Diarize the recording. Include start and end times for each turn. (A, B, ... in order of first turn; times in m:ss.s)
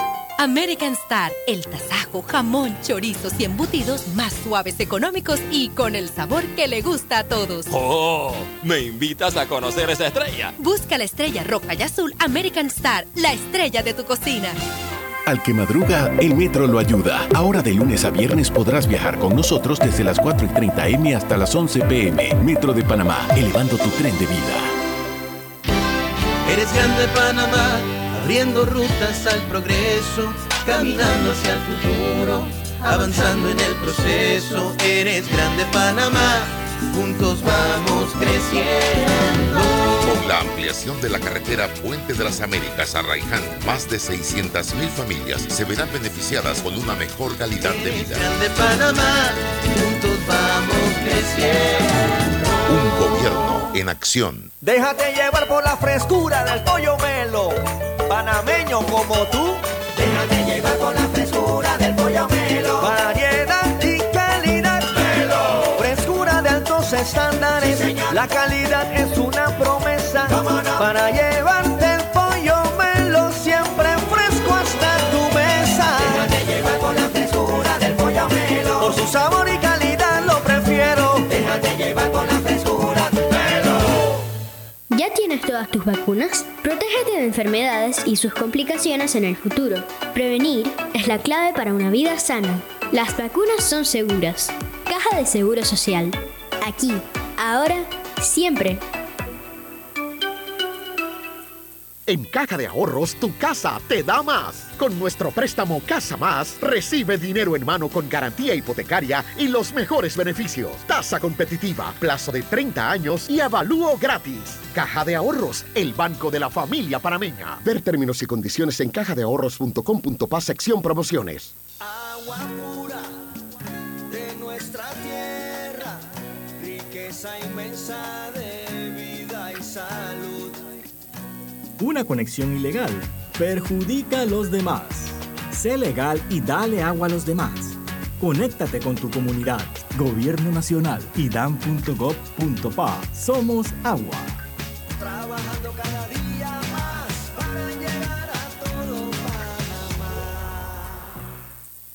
0:00.4-0:07.7 A
0:07.7-0:10.5 B
0:10.6-0:14.6 A
0:15.3-0:24.7 C
0:26.4-0:40.0 D
0:40.0-0:48.3 E
0:47.6-0:51.9 D
0:52.7-0:54.5 E
0:54.6-0:59.6 F
1:00.1-1:02.5 D
1:02.7-1:05.2 F
1:05.7-1:16.4 F
1:16.9-1:23.2 F
1:24.9-1:38.8 G
1:42.1-2:01.6 H
2:01.8-2:03.1 F
2:04.1-2:06.0 F
2:06.6-2:10.7 F
2:11.8-2:24.4 I
2:25.0-2:30.7 F